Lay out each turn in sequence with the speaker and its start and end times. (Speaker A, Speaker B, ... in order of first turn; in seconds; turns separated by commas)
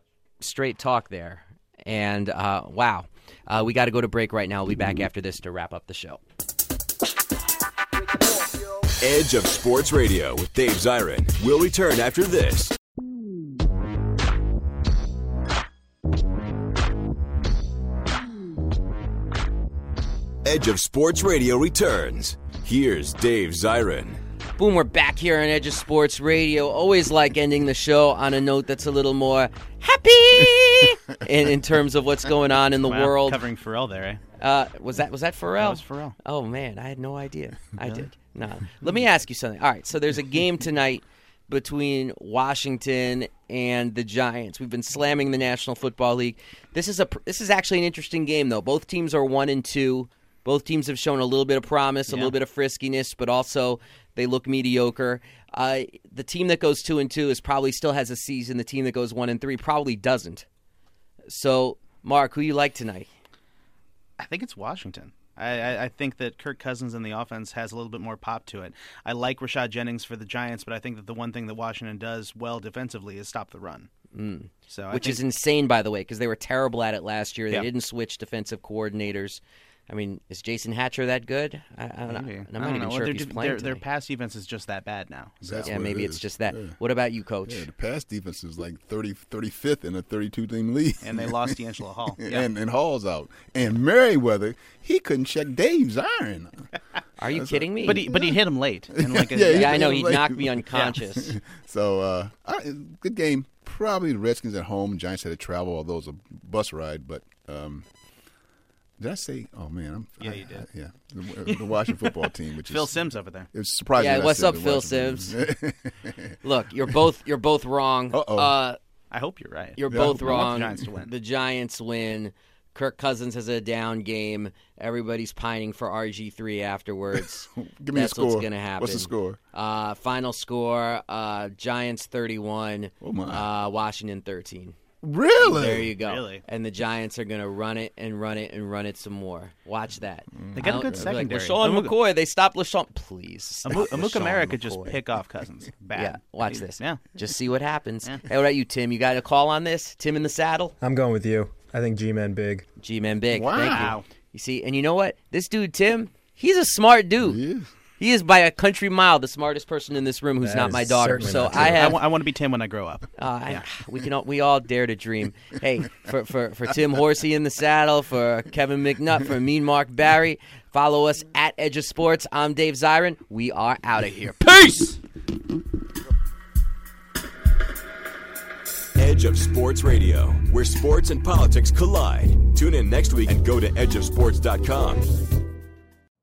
Speaker A: 0.4-6.2, Speaker B: 9.0-12.7, Speaker B: 20.4-24.2, Speaker A: 24.6-33.4, Speaker C: 32.9-34.2, Speaker A: 34.4-60.5, Speaker C: 35.6-36.2, Speaker C: 52.1-52.4, Speaker A: 61.3-63.1, Speaker C: 64.2-73.9, Speaker A: 74.1-83.8, Speaker C: 74.7-75.2, Speaker C: 82.1-85.7, Speaker D: 85.4-86.8, Speaker A: 85.7-87.7, Speaker D: 87.5-91.6, Speaker C: 91.0-92.5, Speaker D: 92.2-96.7, Speaker A: 97.2-98.1, Speaker D: 97.3-98.4, Speaker C: 97.8-100.1, Speaker D: 99.0-107.9, Speaker A: 99.5-101.3, Speaker D: 109.0-113.0, Speaker C: 110.2-110.7, Speaker C: 111.5-113.5, Speaker D: 113.5-116.4, Speaker A: 114.0-115.4, Speaker A: 116.4-118.8, Speaker D: 118.1-118.5, Speaker C: 119.1-121.1, Speaker A: 119.8-134.8, Speaker D: 119.9-120.6, Speaker D: 127.2-129.4, Speaker D: 133.0-133.5, Speaker D: 135.0-135.9, Speaker A: 135.4-144.4, Speaker C: 136.0-136.4, Speaker D: 140.3-141.1, Speaker C: 140.6-141.9, Speaker C: 143.6-147.2, Speaker D: 143.7-144.9, Speaker A: 146.0-150.8, Speaker E: 150.8-152.7, Speaker A: 152.8-157.4, Speaker D: 153.3-154.0, Speaker C: 153.6-154.1, Speaker D: 157.2-157.7, Speaker A: 158.0-162.0, Speaker E: 160.4-161.8, Speaker C: 161.5-163.7, Speaker A: 163.2-175.0, Speaker B: 179.0-185.2